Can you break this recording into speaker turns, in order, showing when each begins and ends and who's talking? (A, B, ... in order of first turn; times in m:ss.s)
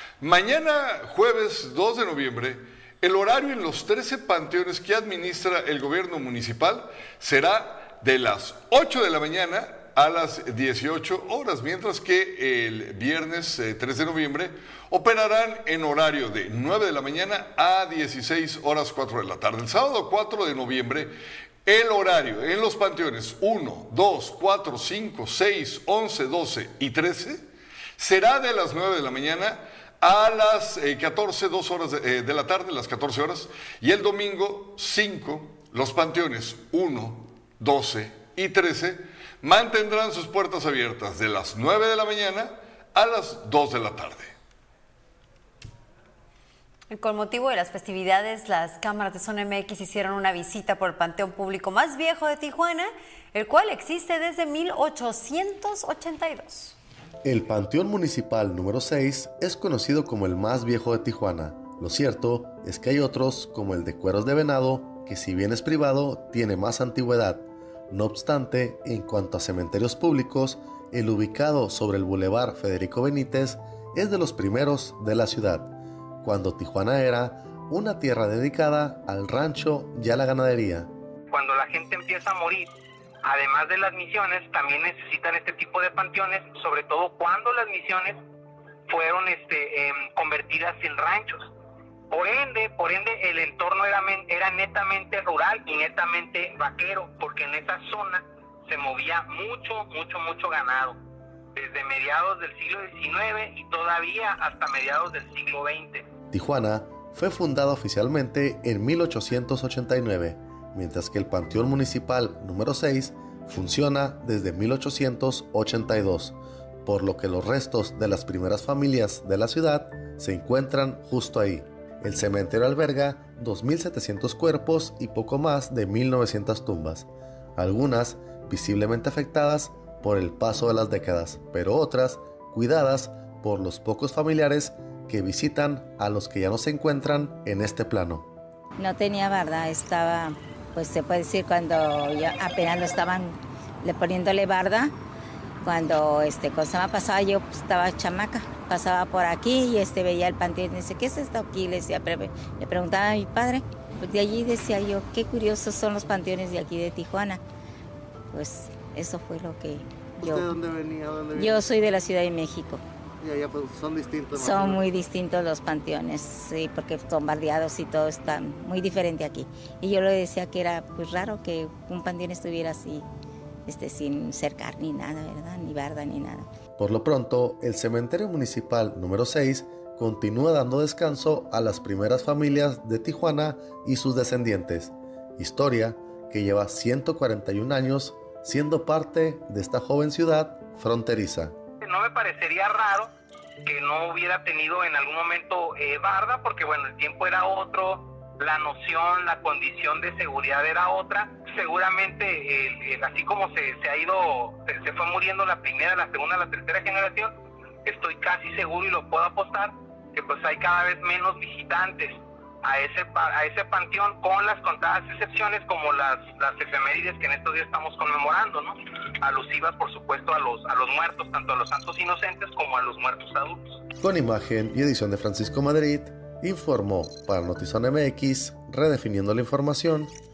0:00.2-0:21.1 A
0:21.7-0:27.4 A
0:28.0-0:44.3 A
0:46.9-0:56.8 B
0:57.2-1:20.9 C
1:21.3-1:22.7 D
1:23.2-1:28.2 D
1:28.9-1:31.5 D
1:32.1-1:41.0 D
1:41.6-1:46.1 D
1:46.3-2:18.3 C
2:18.8-2:24.9 E
2:25.6-2:37.4 E
2:38.3-2:40.6 E
2:40.2-2:41.8 F
2:41.4-2:42.8 E
2:43.2-2:45.1 F
2:44.4-2:53.1 E
2:53.7-2:56.5 E
2:56.8-3:11.6 C
3:11.8-3:13.1 D
3:13.6-3:43.8 D
3:44.0-3:50.1 C